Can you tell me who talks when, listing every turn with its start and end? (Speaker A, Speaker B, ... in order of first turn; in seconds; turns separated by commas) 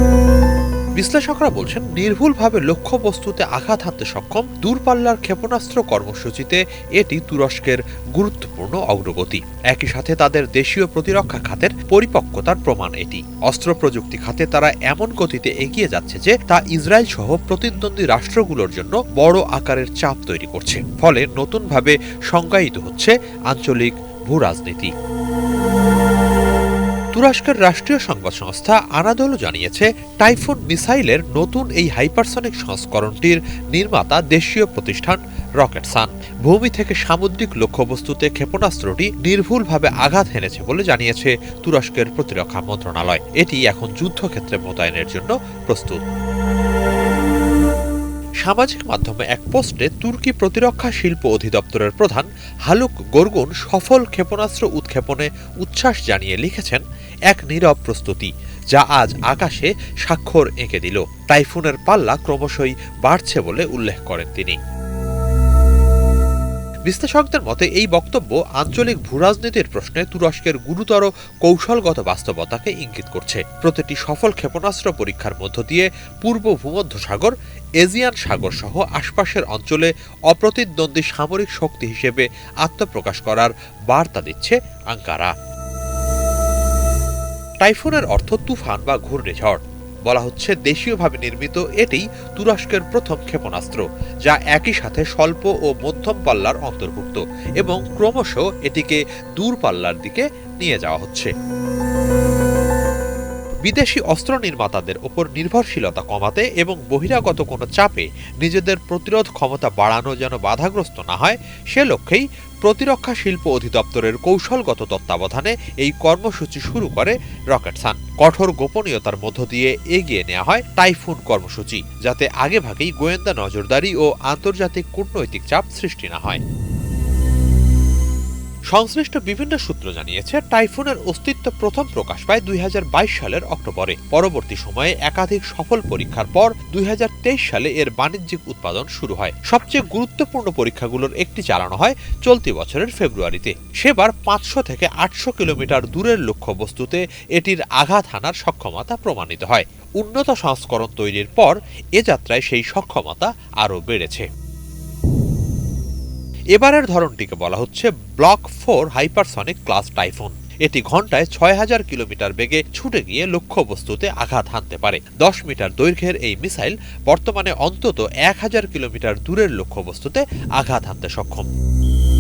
Speaker A: 1.0-24.9, Speaker A: 27.1-46.0, Speaker A: 48.5-64.6, Speaker A: 66.9-85.3, Speaker A: 87.6-101.3, Speaker A: 103.7-126.4, Speaker A: 128.7-154.3, Speaker A: 156.6-171.5